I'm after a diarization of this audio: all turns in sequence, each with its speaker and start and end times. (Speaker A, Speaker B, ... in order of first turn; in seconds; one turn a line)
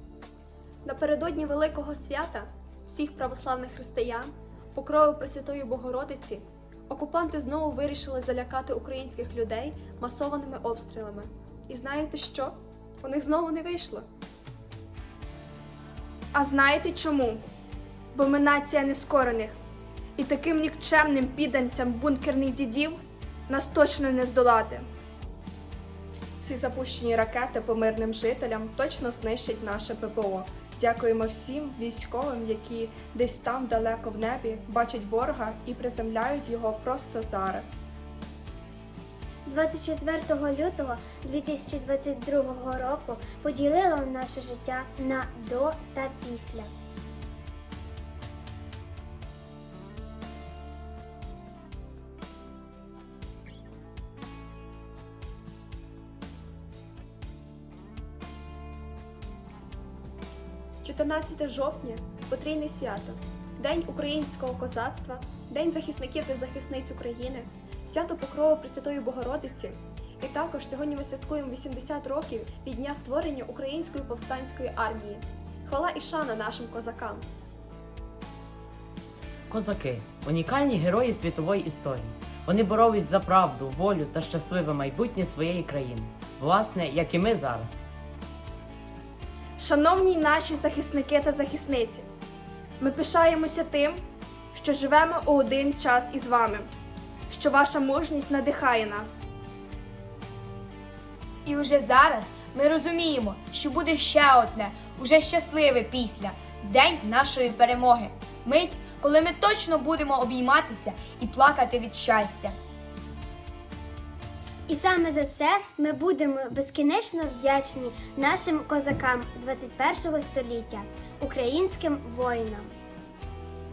Speaker A: 0.8-14.1
Speaker B: 16.3-17.4
Speaker B: 18.1-19.6
Speaker B: 20.2-24.9
Speaker C: 26.4-37.8
Speaker D: 39.5-46.7
Speaker A: 60.8-77.2
Speaker E: 79.5-87.8
Speaker B: 89.6-92.1
Speaker B: 92.8-94.0
Speaker B: 94.5-96.7
Speaker B: 97.3-99.2
Speaker F: 101.5-112.5
Speaker D: 114.7-122.7